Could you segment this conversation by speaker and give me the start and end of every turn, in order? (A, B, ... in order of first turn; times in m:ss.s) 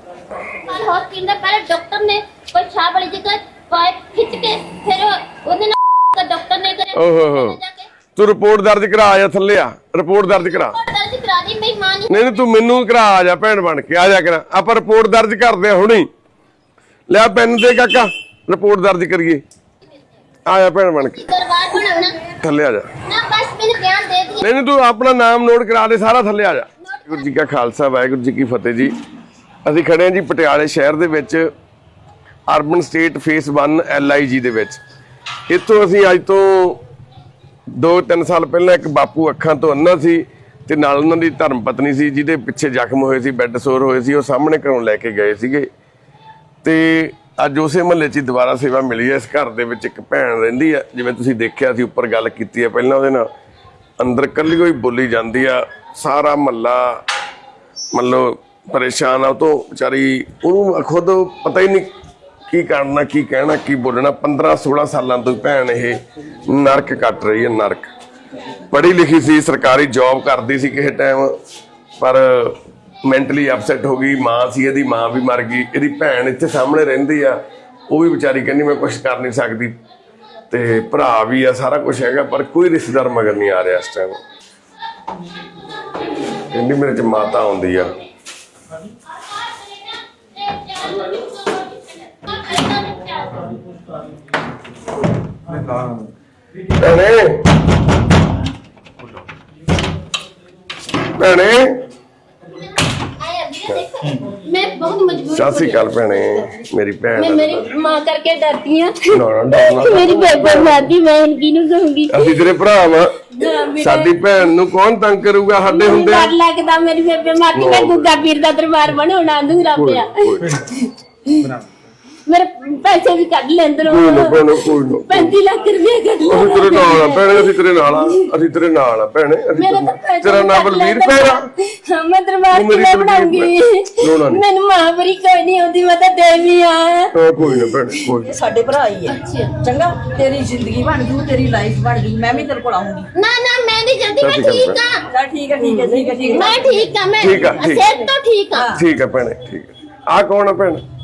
0:00.5-0:07.9 A
0:06.9-0:07.6 B
0:08.2-0:10.8 B
0:10.4-0:12.4 A
0:12.1-0:16.1 B
0:17.1-0:19.4 B
0:20.5-0:21.3 B
0:21.1-0:22.2 A
0:22.4-0:22.9 B
0:23.1-0:24.4 A
0:24.4-0:28.9 B
0:26.8-0:27.4 A
0:29.6-0:31.5 B
0:32.5-0:34.8 B
0:35.5-0:36.8 B
0:37.8-0:45.7 B
0:46.6-0:53.3 B
0:54.0-0:57.0 B
0:57.9-1:01.9 B
1:02.5-1:07.9 B
1:08.7-1:11.4 B
1:12.0-1:19.8 B
1:20.5-1:24.2 B
1:25.1-1:26.5 A
1:26.4-1:27.9 B
1:28.9-1:33.6 A
1:36.8-1:37.5 B
1:41.2-1:41.8 B
1:43.0-1:46.4 A
1:45.3-1:47.7 B
1:47.2-1:52.5 A
1:49.1-1:50.8 B
1:52.1-1:53.2 B
1:53.3-1:54.2 A
1:53.8-1:56.3 B
1:55.6-2:01.5 A
1:57.5-1:58.2 B
1:59.7-2:00.6 B
2:02.3-2:08.3 A
2:03.8-2:05.4 B
2:06.2-2:11.4 B
2:09.5-2:17.7 A
2:12.5-2:14.4 B
2:17.2-2:18.4 B
2:18.2-2:23.1 C
2:19.1-2:19.6 A
2:23.2-2:25.0 A
2:24.2-2:24.8 B
2:25.1-2:27.6 C
2:25.6-2:28.7 A
2:27.2-2:27.9 B
2:28.5-2:28.8 C
2:28.7-2:30.8 B